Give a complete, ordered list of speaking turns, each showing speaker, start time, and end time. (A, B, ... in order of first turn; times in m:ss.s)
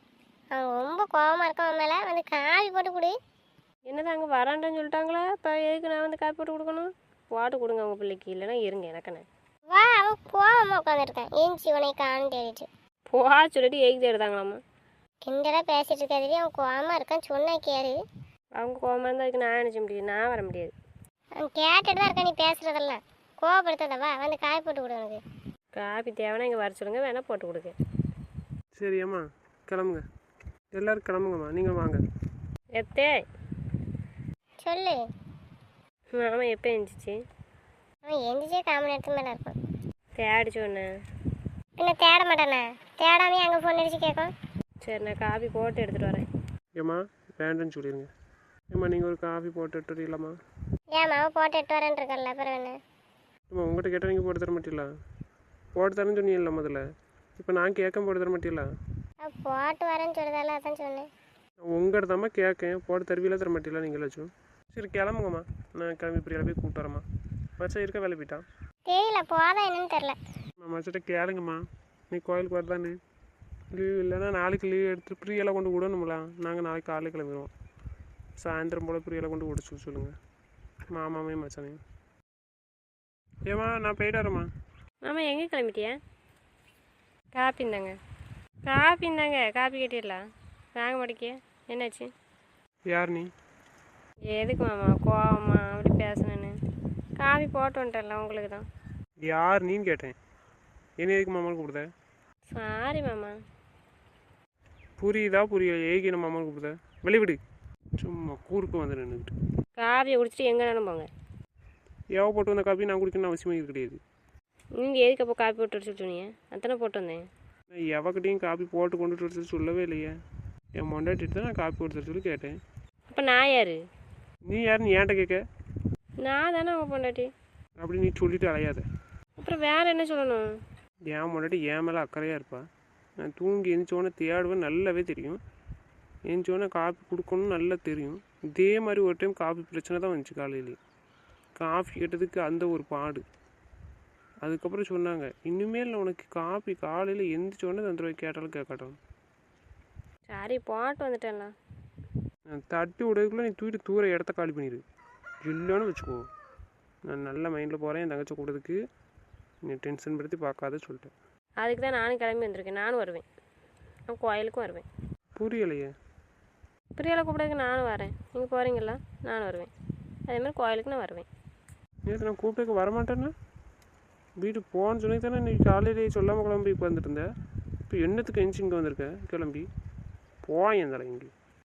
0:00.5-0:03.2 A
0:03.9-0:09.2 B
0:09.7-0:12.7 A
0:13.1-0:14.6 B
0:15.2-0:18.0 A
0:18.6-0:20.7 B
0:21.4-0:25.2 A
0:25.7-0:27.7 B
0:28.7-0:30.0 C
0:30.7-0:32.0 C
0:32.7-0:33.2 B
0:34.6-0:35.0 A
0:36.2-0:37.2 B
0:38.0-0:39.5 A
0:40.2-0:40.9 B
0:41.8-0:44.3 A
0:44.8-0:46.2 B
0:46.8-0:48.1 C
0:48.7-0:50.4 C
0:50.9-0:52.7 A
0:53.5-0:54.9 C
0:55.8-0:56.8 C
0:57.4-0:58.7 C
0:59.2-1:01.1 A
1:01.6-1:07.0 C
1:07.6-1:08.4 C
1:08.9-1:10.2 A
1:10.6-1:13.0 C
1:13.7-1:17.5 C
1:18.4-1:20.1 C
1:20.9-1:21.8 C
1:23.5-1:24.5 C
1:25.0-1:26.0 B
1:27.3-1:27.9 B
1:28.6-1:30.2 B
1:30.7-1:32.1 B
1:32.9-1:33.3 C
1:34.3-1:36.5 B
1:37.2-1:38.6 B
1:39.2-1:40.2 C
1:41.0-1:41.9 C
1:42.5-1:43.4 B
1:45.0-1:47.4 C
1:48.0-1:49.3 C
1:49.8-1:51.1 B
1:52.1-1:54.0 C
1:54.8-1:57.2 B
1:57.7-2:00.2 C
2:00.8-2:02.6 C
2:03.1-2:03.8 B
2:04.5-2:05.4 C
2:06.2-2:07.3 B
2:07.8-2:08.8 C
2:09.4-2:10.5 B
2:11.1-2:12.6 C
2:13.2-2:15.4 C
2:16.3-2:20.8 C
2:21.6-2:23.2 C
2:24.4-2:29.0 C
2:30.3-2:31.5 B
2:32.5-2:34.8 C
2:35.4-2:36.3 C
2:37.1-2:38.8 C
2:39.6-2:41.1 C
2:41.6-2:43.2 B
2:44.1-2:44.8 B
2:45.3-2:45.9 C
2:47.0-2:49.7 B
2:50.3-2:51.3 B
2:52.0-2:53.3 C
2:54.4-2:57.3 C
2:57.9-2:59.7 C
3:00.4-3:01.3 C